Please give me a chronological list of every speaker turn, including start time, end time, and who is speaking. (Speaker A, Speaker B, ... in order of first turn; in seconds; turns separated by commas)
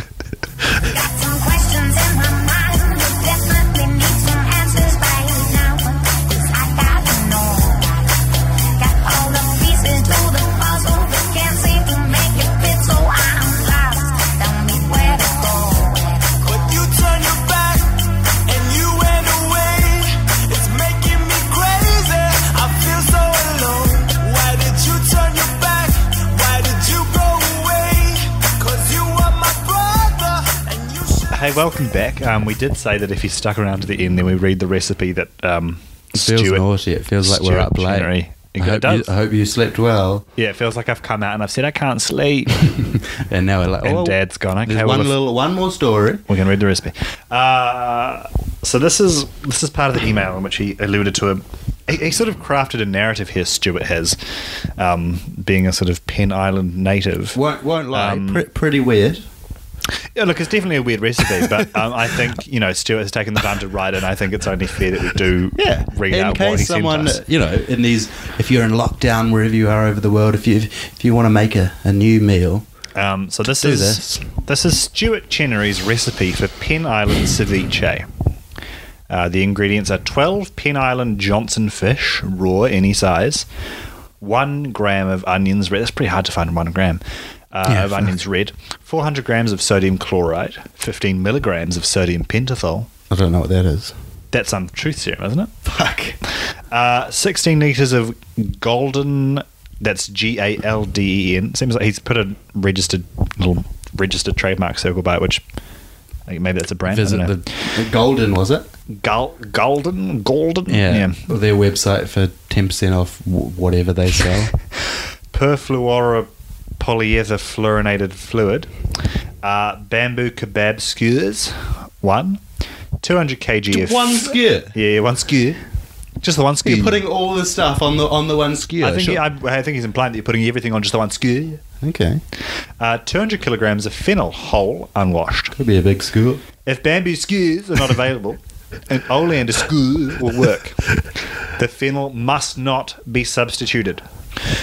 Speaker A: 0.8-16.4, Speaker B: 16.4-31.6, Speaker C: 31.3-36.6, Speaker D: 36.1-40.2, Speaker C: 37.2-39.1, Speaker C: 40.4-42.7, Speaker D: 42.6-46.2, Speaker C: 43.8-45.2, Speaker C: 46.3-54.2, Speaker C: 54.8-57.4, Speaker D: 57.3-59.2, Speaker C: 57.9-58.5, Speaker C: 60.1-67.2, Speaker D: 61.3-61.7, Speaker D: 65.5-72.7, Speaker C: 73.0-78.1, Speaker D: 73.5-74.1, Speaker C: 79.1-83.5, Speaker C: 84.2-92.9, Speaker D: 87.7-88.1, Speaker D: 93.1-93.9, Speaker C: 94.3-95.5, Speaker D: 95.6-96.2, Speaker C: 96.7-105.4, Speaker C: 106.3-107.3, Speaker D: 106.9-108.7, Speaker C: 108.9-111.3, Speaker D: 110.7-114.5, Speaker C: 115.3-116.3, Speaker C: 116.8-118.7, Speaker C: 119.4-122.4, Speaker C: 123.0-125.6, Speaker D: 123.7-124.7, Speaker C: 126.2-127.0, Speaker D: 126.6-129.2, Speaker C: 128.8-131.6, Speaker D: 131.8-132.2, Speaker C: 132.8-135.6, Speaker D: 135.6-136.4, Speaker C: 136.6-144.0